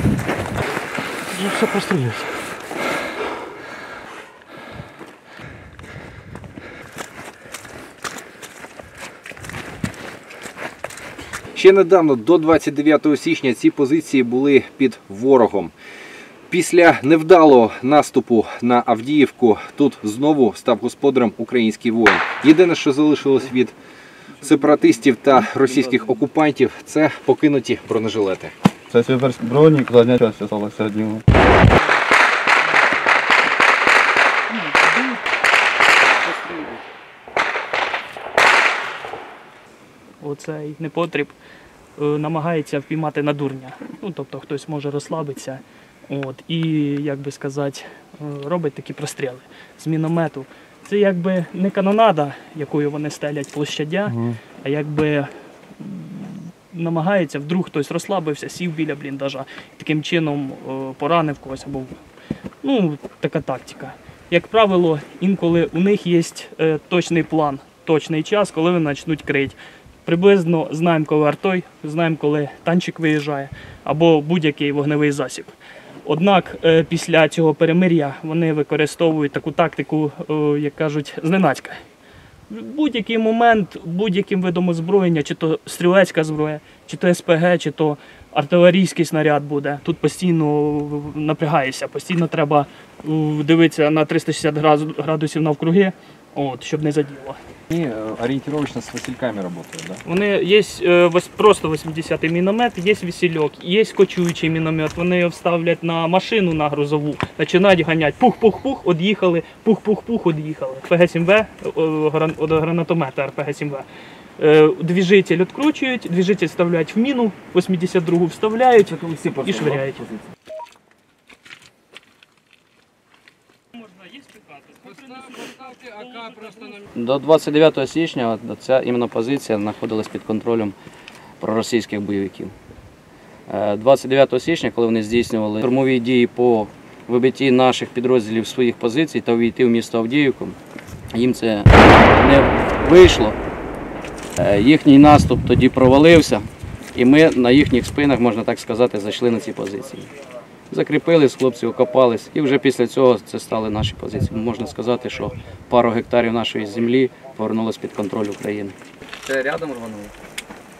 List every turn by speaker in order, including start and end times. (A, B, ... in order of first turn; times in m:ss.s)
0:01.3-0:02.3 A
0:11.5-0:15.7 B
0:16.5-0:23.7 B
0:24.4-0:28.5 B
0:28.9-0:31.2 C
0:32.7-0:33.0 D
0:34.5-0:35.2 D
0:36.2-0:36.8 A
0:40.2-0:41.4 D
0:42.0-1:02.0 D
1:02.6-1:21.8 D
1:22.5-1:37.4 D
1:37.7-1:40.0 B
1:40.0-1:53.9 D
1:54.4-2:00.2 D
2:03.9-2:06.8 D
2:06.9-2:10.7 A
2:11.4-2:12.5 A
2:13.5-2:20.6 A
2:21.1-2:23.4 A
2:24.4-2:30.1 A
2:30.7-2:40.1 A